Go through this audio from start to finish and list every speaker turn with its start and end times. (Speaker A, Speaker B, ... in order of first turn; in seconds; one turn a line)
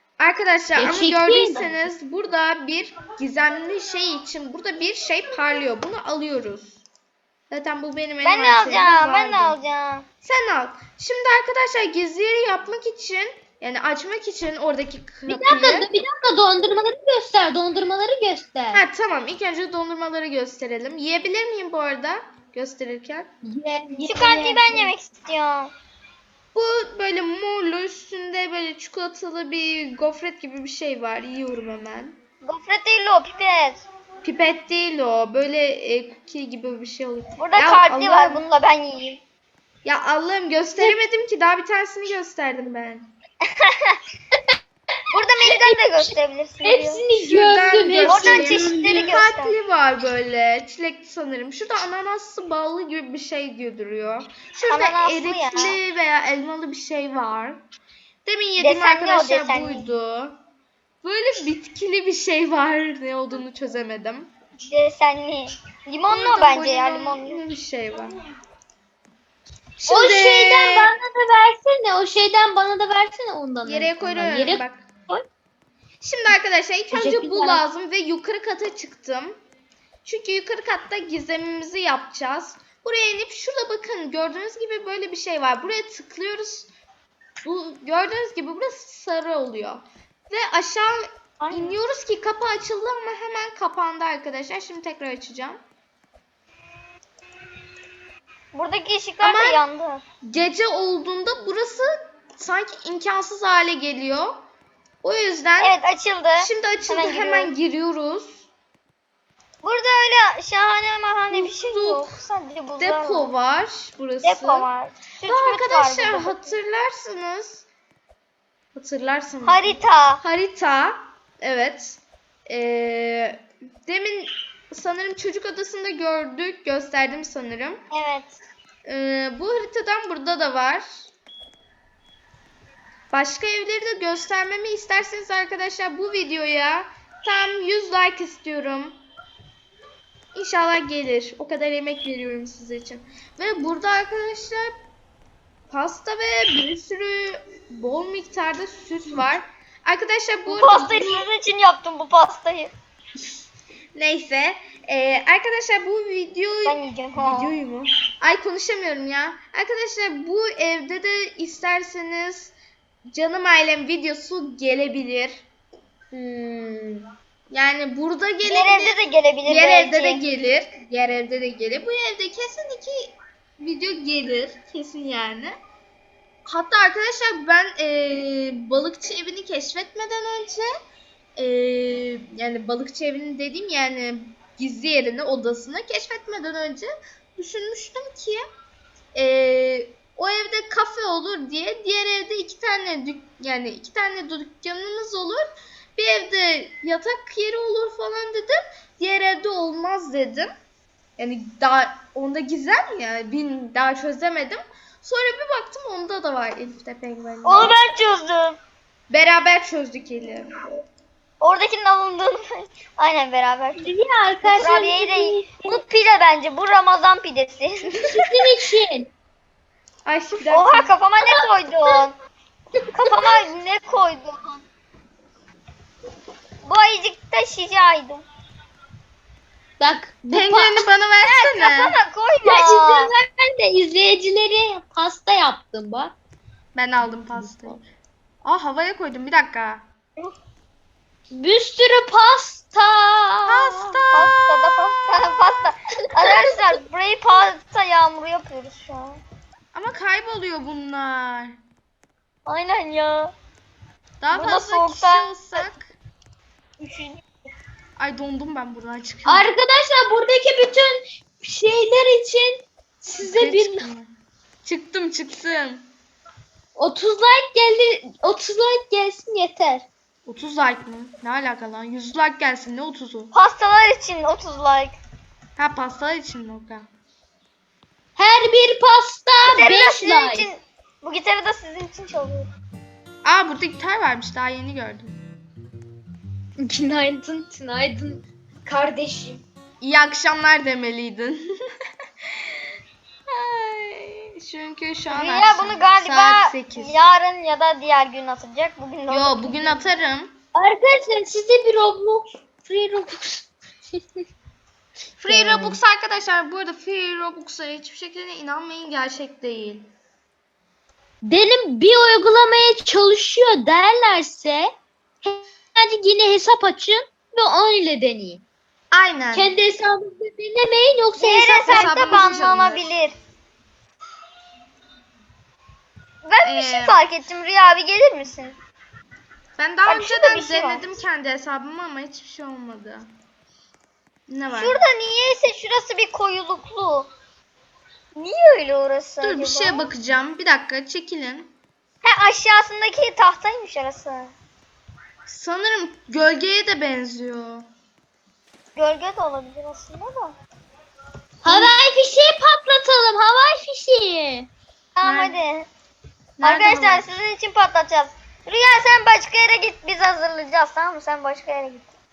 Speaker A: 0.2-6.8
Speaker B: 0.8-1.7
Speaker A: 7.5-9.6
Speaker C: 8.2-10.1
Speaker A: 10.2-15.9
Speaker B: 15.3-18.8
Speaker A: 18.7-23.3
Speaker B: 23.4-24.9
Speaker C: 24.1-25.7
Speaker A: 26.5-32.2
Speaker C: 32.4-33.8
Speaker A: 34.2-38.4
Speaker C: 37.4-39.2
Speaker A: 39.9-43.1
Speaker C: 43.6-44.0
Speaker C: 45.1-47.0
Speaker B: 45.4-49.1
Speaker A: 47.2-57.6
Speaker C: 48.1-49.6
Speaker C: 54.7-55.8
Speaker A: 58.2-60.4
Speaker C: 58.6-59.9
Speaker A: 61.0-64.3
Speaker C: 64.7-67.4
Speaker A: 66.1-68.2
Speaker A: 69.8-70.9
Speaker B: 69.9-75.2
Speaker A: 73.6-74.8
Speaker A: 76.0-79.4
Speaker B: 76.9-77.6
Speaker A: 80.0-86.7
Speaker A: 87.4-95.6
Speaker C: 91.4-91.8
Speaker C: 98.5-100.0
Speaker A: 99.2-99.6
Speaker A: 100.2-104.4
Speaker A: 105.0-105.8
Speaker C: 105.6-107.5
Speaker A: 106.4-108.4
Speaker C: 109.6-113.3
Speaker A: 111.3-112.1
Speaker A: 112.8-114.7
Speaker C: 114.2-116.6
Speaker A: 115.2-117.6
Speaker A: 118.8-127.8
Speaker C: 119.4-120.2
Speaker C: 127.9-128.4
Speaker A: 128.9-130.8
Speaker A: 133.1-139.0
Speaker A: 140.3-144.7
Speaker A: 145.7-151.2
Speaker C: 150.5-152.7
Speaker A: 153.9-162.5
Speaker C: 156.6-157.5
Speaker A: 163.1-165.5
Speaker C: 166.2-166.8
Speaker A: 167.5-175.5
Speaker C: 168.4-170.2
Speaker A: 176.5-180.7
Speaker A: 181.4-188.4
Speaker A: 189.1-200.5
Speaker A: 201.2-207.8
Speaker C: 207.4-208.6
Speaker A: 209.1-210.5
Speaker C: 211.4-213.9
Speaker B: 213.8-215.8
Speaker C: 214.4-217.9
Speaker B: 218.1-219.1
Speaker A: 220.0-220.9
Speaker C: 220.5-222.2
Speaker B: 221.2-221.9
Speaker B: 222.8-223.4
Speaker C: 223.0-224.7
Speaker C: 226.6-228.2
Speaker B: 229.8-230.8
Speaker A: 230.3-232.0
Speaker C: 231.2-233.1
Speaker B: 232.4-236.1
Speaker A: 236.7-237.8
Speaker B: 237.3-237.8
Speaker A: 238.4-239.8
Speaker B: 241.3-244.0
Speaker A: 243.5-245.7
Speaker C: 244.1-249.2
Speaker B: 246.1-246.8
Speaker A: 249.7-251.6
Speaker C: 252.5-253.3
Speaker A: 254.2-255.9
Speaker C: 254.3-255.7
Speaker C: 256.8-257.2
Speaker A: 258.0-259.5
Speaker B: 259.2-263.9
Speaker A: 263.2-264.1
Speaker A: 264.6-265.9
Speaker B: 266.8-269.9
Speaker A: 270.2-273.3
Speaker C: 273.3-275.0
Speaker A: 275.6-276.9
Speaker B: 278.2-280.5
Speaker C: 279.4-282.5
Speaker A: 283.2-285.2
Speaker B: 286.6-289.4
Speaker A: 289.8-291.4
Speaker A: 293.3-297.1
Speaker C: 295.1-299.8
Speaker A: 299.1-300.3
Speaker B: 300.5-304.0
Speaker A: 305.2-309.9
Speaker B: 305.3-305.8
Speaker B: 311.2-314.7
Speaker B: 315.2-318.4
Speaker A: 318.9-319.5
Speaker B: 319.3-321.9
Speaker C: 321.2-323.1
Speaker A: 321.7-322.9
Speaker C: 326.2-328.6
Speaker A: 326.4-327.0
Speaker A: 329.6-333.1
Speaker C: 329.9-330.9
Speaker A: 334.3-334.8
Speaker C: 334.6-337.1
Speaker C: 338.1-339.9
Speaker A: 339.2-341.5
Speaker C: 342.0-344.3
Speaker A: 345.3-347.6
Speaker C: 348.8-350.4
Speaker B: 351.4-354.5
Speaker A: 351.5-351.7
Speaker C: 355.0-355.7
Speaker A: 355.0-355.4
Speaker A: 356.4-357.2
Speaker C: 356.4-361.9